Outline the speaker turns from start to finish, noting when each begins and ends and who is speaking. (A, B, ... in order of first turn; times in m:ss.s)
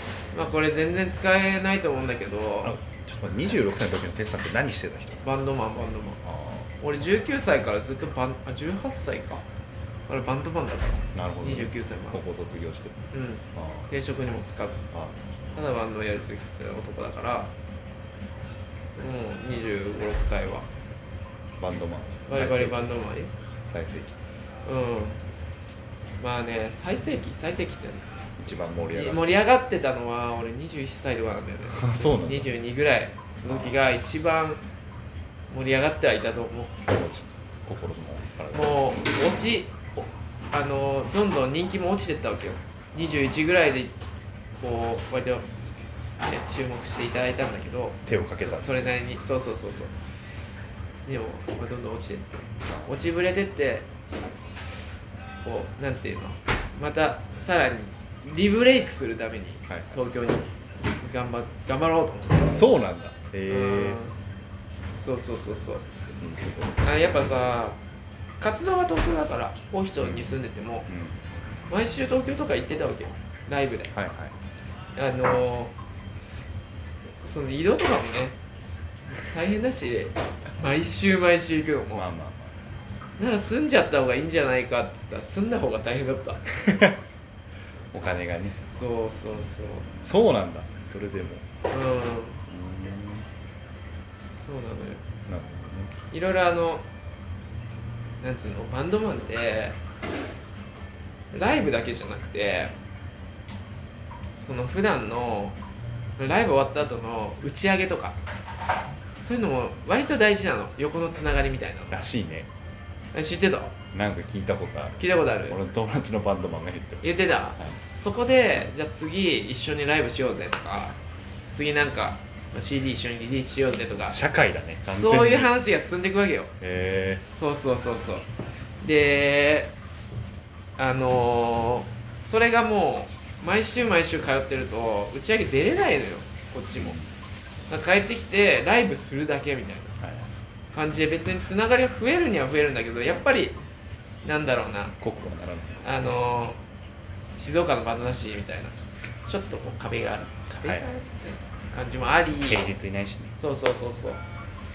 0:00.3-0:02.7 A
0:02.6-0:05.3 B
0:05.2-0:06.2 A
0:06.2-0:06.7 B
0:06.8-0:09.4 A
0:10.1-0:12.2 A
0:11.1-0:13.9 B
0:13.1-0:14.8 A
0:14.9-0:15.2 B
0:15.6-0:17.5 A
0:19.0-0:20.7 A
0:21.6-0:22.9 B
0:22.3-0:23.3 A
0:23.7-0:24.2 B
0:24.7-0:25.2 A
0:26.2-0:28.2 A
0:28.4-0:29.4 B
0:28.9-0:34.6 A
0:31.7-0:32.6 B
0:33.5-0:33.7 B
0:35.5-0:36.8 A
0:36.9-0:39.0 B
0:38.5-0:39.9 A
0:40.5-0:44.0 A
0:44.6-0:45.5 A
0:46.2-0:49.9 A
0:48.1-0:48.9 B
0:51.1-0:53.9 A
0:52.7-0:52.9 B
0:55.4-1:00.5 A
0:59.7-0:59.9 B
1:01.0-1:02.6 A
1:02.5-1:04.0 B
1:03.5-1:04.2 A
1:04.9-1:05.9 A
1:06.2-1:06.8 B
1:06.8-1:07.8 A
1:08.4-1:10.9 A
1:10.0-1:11.2 B
1:11.7-1:13.9 A
1:13.9-1:14.4 B
1:15.0-1:15.7 A
1:17.2-1:18.4 A
1:19.1-1:22.1 A
1:22.0-1:22.7 B
1:23.2-1:26.4 A
1:26.5-1:27.0 B
1:27.9-1:28.6 B
1:28.7-1:29.9 A
1:30.0-1:31.5 B
1:31.7-1:32.4 A
1:32.5-1:33.3 B
1:34.4-1:35.0 A
1:35.3-1:36.0 B
1:36.1-1:36.8 A
1:38.2-1:39.8 A
1:41.3-1:42.7 A
1:44.4-1:45.6 A
1:46.2-1:48.2 A
1:49.2-1:52.0 A
1:51.9-1:52.5 B
1:53.1-1:53.8 A
1:53.9-1:57.8 B
1:55.0-1:55.6 A
1:57.0-2:01.0 A
2:01.5-2:04.2 A
2:04.1-2:05.5 B
2:04.9-2:06.5 A
2:06.6-2:07.3 B
2:07.3-2:08.3 A
2:08.8-2:09.7 A
2:10.8-2:17.0 A
2:16.8-2:17.1 B
2:17.7-2:20.0 A
2:20.0-2:20.3 B
2:20.7-2:23.6 A
2:24.2-2:25.0 A
2:25.0-2:25.8 B
2:25.8-2:26.6 A
2:27.4-2:28.8 A
2:29.3-2:32.7 A
2:30.6-2:30.9 B
2:32.5-2:33.4 B
2:33.4-2:34.2 A